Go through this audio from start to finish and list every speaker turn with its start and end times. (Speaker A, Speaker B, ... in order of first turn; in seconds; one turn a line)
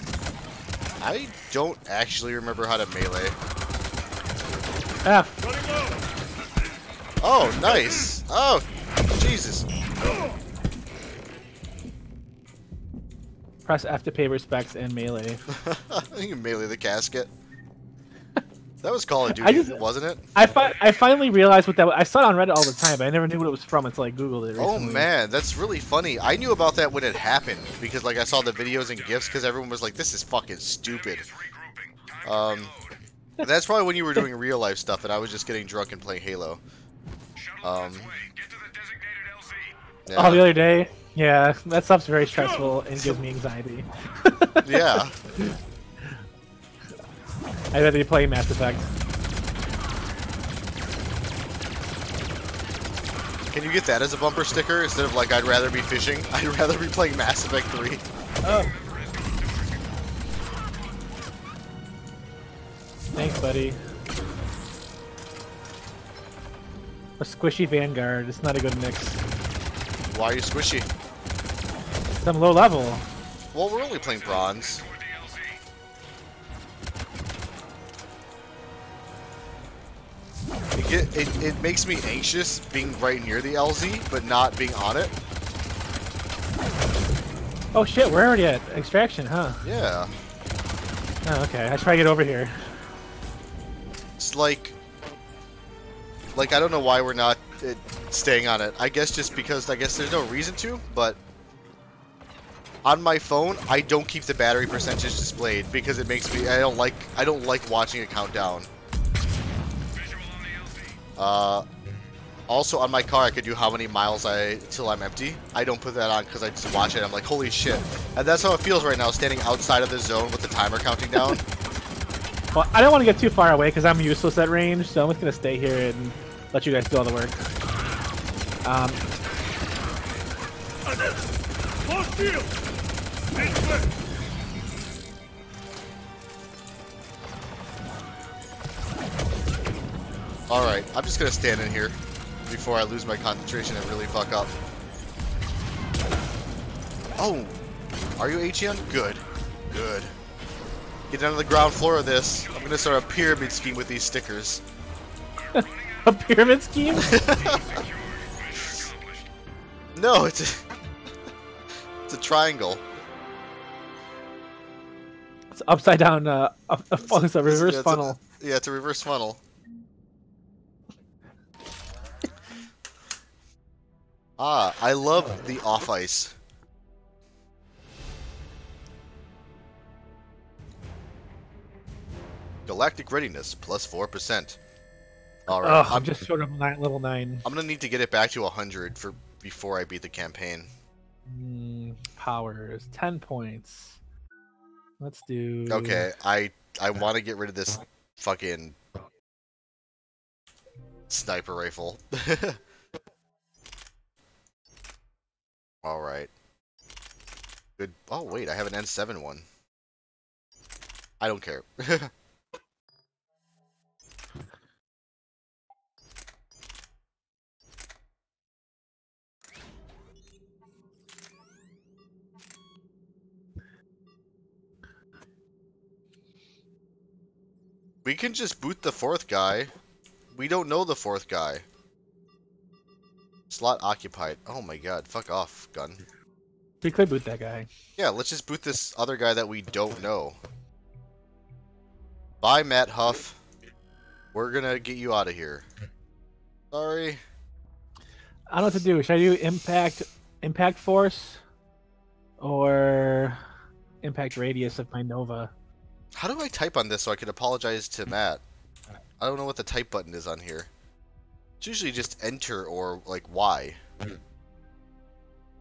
Speaker A: 1.0-3.4
Speaker B: 5.0-5.4
Speaker A: 7.2-8.7
Speaker A: 9.2-9.7
Speaker B: 13.7-15.5
Speaker A: 15.5-17.3
Speaker A: 18.8-20.3
Speaker B: 19.3-19.8
Speaker B: 20.4-25.1
Speaker A: 24.6-31.2
Speaker C: 28.8-29.4
Speaker C: 30.9-33.0
Speaker A: 32.2-32.7
Speaker A: 33.4-36.6
Speaker C: 37.4-39.7
Speaker A: 37.6-38.1
Speaker A: 40.1-40.5
Speaker B: 40.1-45.5
Speaker A: 44.6-45.2
Speaker B: 47.7-48.9
Speaker A: 53.5-58.0
Speaker B: 58.4-58.7
Speaker C: 58.4-59.9
Speaker B: 63.1-63.8
Speaker B: 67.2-69.2
Speaker A: 70.1-70.9
Speaker B: 72.2-73.0
Speaker A: 73.5-74.8
Speaker C: 73.7-75.6
Speaker A: 80.8-85.1
Speaker B: 87.7-89.6
Speaker A: 89.6-90.1
Speaker B: 91.2-92.7
Speaker A: 94.2-94.8
Speaker A: 96.3-101.2
Speaker A: 102.8-108.7
Speaker C: 109.9-111.0
Speaker A: 111.2-111.7
Speaker A: 112.5-121.5
Speaker B: 122.5-127.5
Speaker B: 128.7-129.0
Speaker A: 140.5-144.5
Speaker A: 147.2-147.6
Speaker A: 148.2-150.1
Speaker A: 151.1-154.6
Speaker C: 152.3-153.8
Speaker C: 155.3-159.3
Speaker B: 155.5-157.1
Speaker A: 157.0-157.7
Speaker A: 159.9-160.7
Speaker A: 162.1-162.8
Speaker B: 165.5-168.2
Speaker A: 167.0-169.4
Speaker A: 174.4-176.4
Speaker A: 182.7-184.6
Speaker A: 185.5-186.1
Speaker B: 185.6-187.5
Speaker A: 187.4-190.7
Speaker B: 191.3-194.0
Speaker B: 195.0-196.1
Speaker A: 195.7-198.8
Speaker A: 201.1-202.6
Speaker A: 205.8-206.3
Speaker A: 207.8-209.4
Speaker A: 211.2-212.1
Speaker A: 228.0-229.7
Speaker A: 230.3-231.7
Speaker A: 233.5-236.0
Speaker B: 236.8-237.7
Speaker A: 238.0-240.4
Speaker A: 242.4-243.4
Speaker A: 244.3-245.7
Speaker A: 246.7-247.2
Speaker B: 248.5-251.4
Speaker B: 252.4-253.4
Speaker B: 254.0-255.5
Speaker A: 256.1-258.4
Speaker A: 259.2-260.7
Speaker A: 261.6-263.8